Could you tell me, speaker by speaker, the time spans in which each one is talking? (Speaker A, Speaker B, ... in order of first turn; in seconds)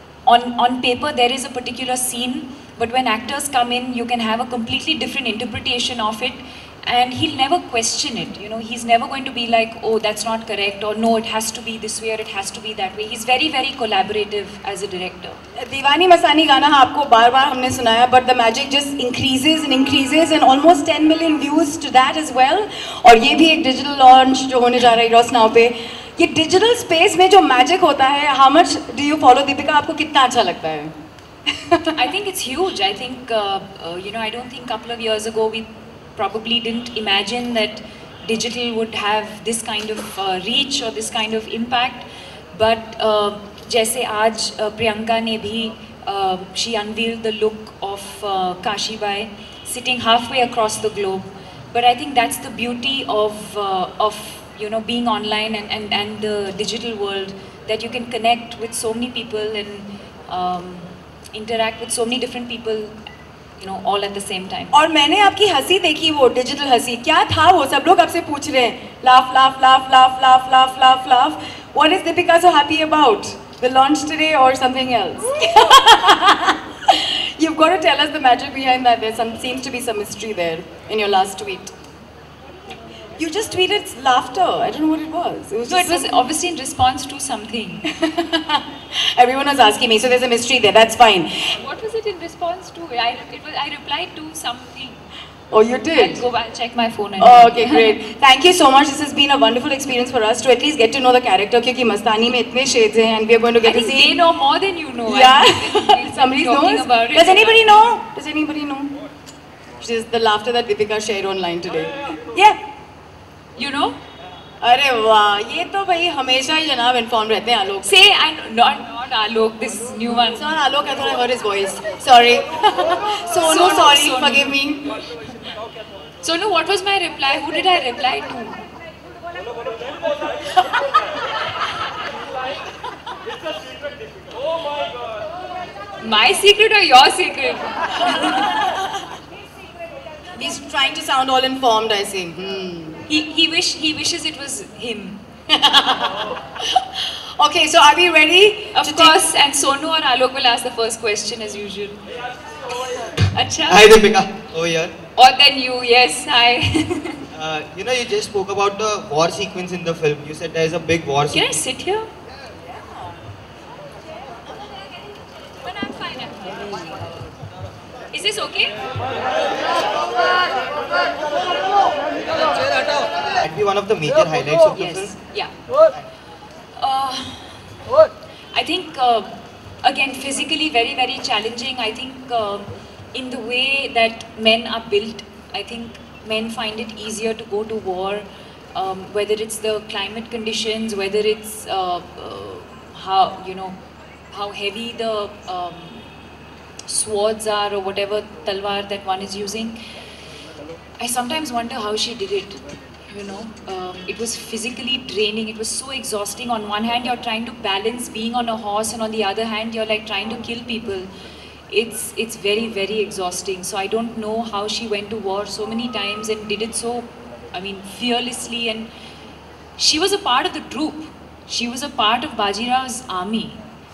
Speaker A: 0.3-15.4, 31.9-63.0, 63.6-64.8, 85.7-87.9, 91.6-95.0, 96.0-98.0, 103.6-107.9, 113.6-114.0, 117.8-120.5, 123.4-124.6, 126.2-128.6, 136.0-138.6, 143.1-145.2, 148.8-152.0, 153.2-153.9, 155.2-157.3, 161.3-162.1, 165.6-166.9, 168.1-168.8, 174.7-175.6, 176.8-177.7, 178.5-193.8, 194.3-196.1, 196.8-199.8, 201.0-211.1, 211.7-218.9, 219.8-223.6
Speaker B: 15.6-30.9, 31.5-31.9, 64.7-81.7, 83.2-86.1, 88.0-91.5, 95.5-96.2, 97.2-104.2, 105.0-108.9, 109.8-112.6, 114.6-117.9, 120.4-124.8, 130.6-130.8, 138.1-139.1, 140.3-143.0, 145.5-149.2
Speaker C: 153.7-154.9, 157.3-161.6, 173.3-175.1